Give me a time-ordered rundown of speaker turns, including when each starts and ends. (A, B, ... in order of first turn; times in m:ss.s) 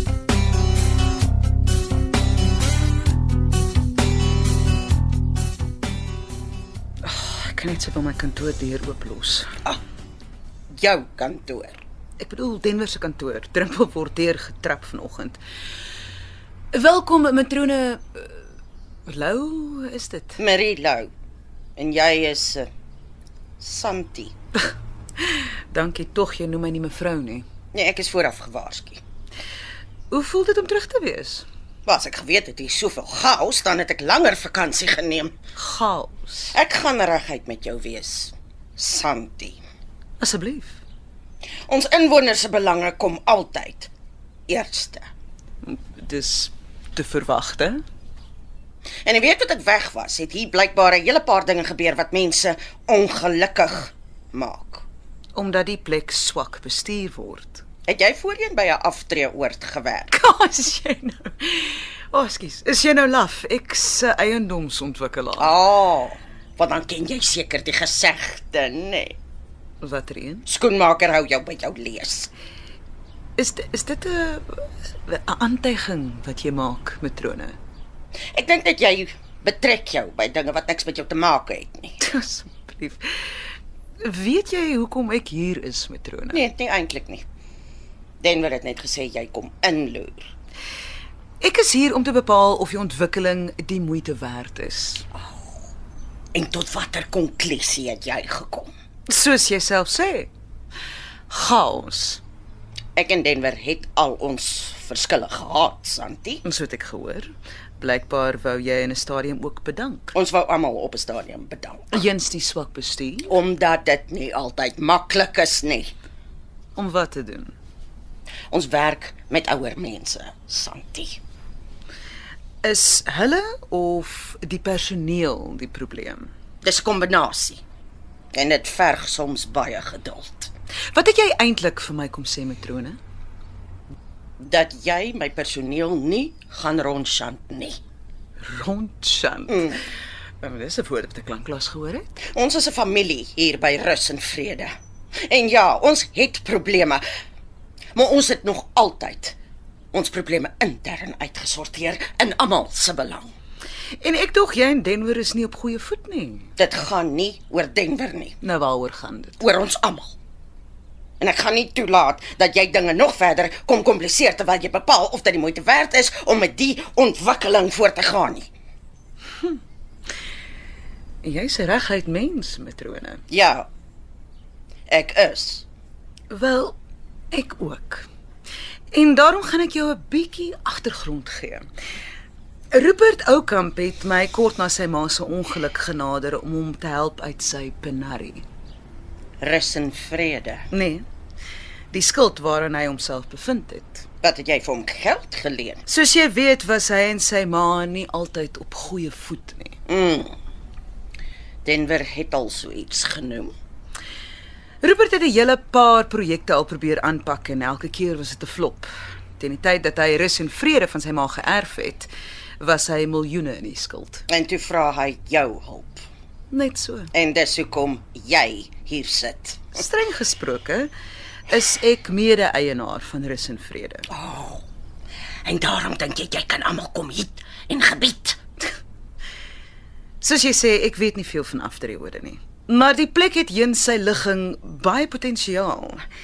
0:07.0-0:09.5 A
0:10.7-0:11.8 B
0:12.2-0:15.4 A
0:16.7-0:18.4 A
0:19.0-0:20.4 A
0:20.4-0:21.1 B
0:21.8-0:22.7 B
0:23.6-0:24.3 B
0:25.7-0:27.4 A
0:27.7-0:29.0 B
0:30.1-0:31.4 A
0:31.8-0:35.3 B
0:35.6-0:36.5 A
0:36.5-0:39.6 B
0:40.2-0:40.8 A
0:41.7-0:43.9 B
0:44.5-0:45.0 B
0:45.6-0:47.8 A
0:49.0-0:54.8 B
0:55.3-0:57.6 A
0:57.9-1:00.1 B
1:00.1-1:05.5 A
1:05.4-1:09.2 B
1:09.8-1:10.4 A
1:10.4-1:12.3 B
1:13.4-1:17.6 A
1:18.3-1:22.0 B
1:22.0-1:23.1 A
1:24.0-1:26.4 A
1:26.3-1:27.2 B
1:28.2-1:30.3 B
1:31.4-1:35.0 A
1:36.3-1:38.7 B
1:39.1-1:40.3 A
1:41.3-1:42.2 A
1:43.0-1:46.4 B
1:46.4-1:50.1 A
1:50.1-1:52.0 B
1:51.9-1:53.3 A
1:53.2-1:55.9 B
1:56.8-1:57.5 A
1:58.5-2:01.2 B
2:02.6-2:06.3 A
2:06.6-2:07.6 B
2:08.3-2:10.5 B
2:10.9-2:13.0 A
2:14.4-2:17.8 B
2:18.4-2:19.7 A
2:19.5-2:19.8 B
2:20.4-2:22.2 A
2:22.3-2:24.7 B
2:25.3-2:27.0 B
2:28.0-2:29.4 B
2:29.9-2:33.3 B
2:34.0-2:36.5 A
2:36.6-2:38.4 B
2:38.4-2:39.4 A
2:39.4-2:40.1 B
2:41.2-2:48.5 B
2:51.2-2:53.2 A
2:53.3-2:53.7 B
2:54.9-2:55.6 B
2:56.3-2:56.8 A
2:57.3-2:58.0 A
2:58.9-3:01.7 A
3:02.7-3:08.4 A
3:09.4-3:10.6 B
3:10.7-3:11.0 A
3:11.9-3:14.0 A
3:14.2-3:15.8 B
3:15.9-3:19.8 A
3:19.9-3:20.3 B
3:21.6-3:23.5 B
3:24.8-3:34.2 A
3:34.3-3:36.0 B
3:36.5-3:37.1 A
3:37.1-3:39.8 B
3:39.7-3:40.9 A
3:41.5-3:44.1 A
3:44.1-3:44.6 B
3:45.4-3:48.4 B
3:50.2-3:56.0 A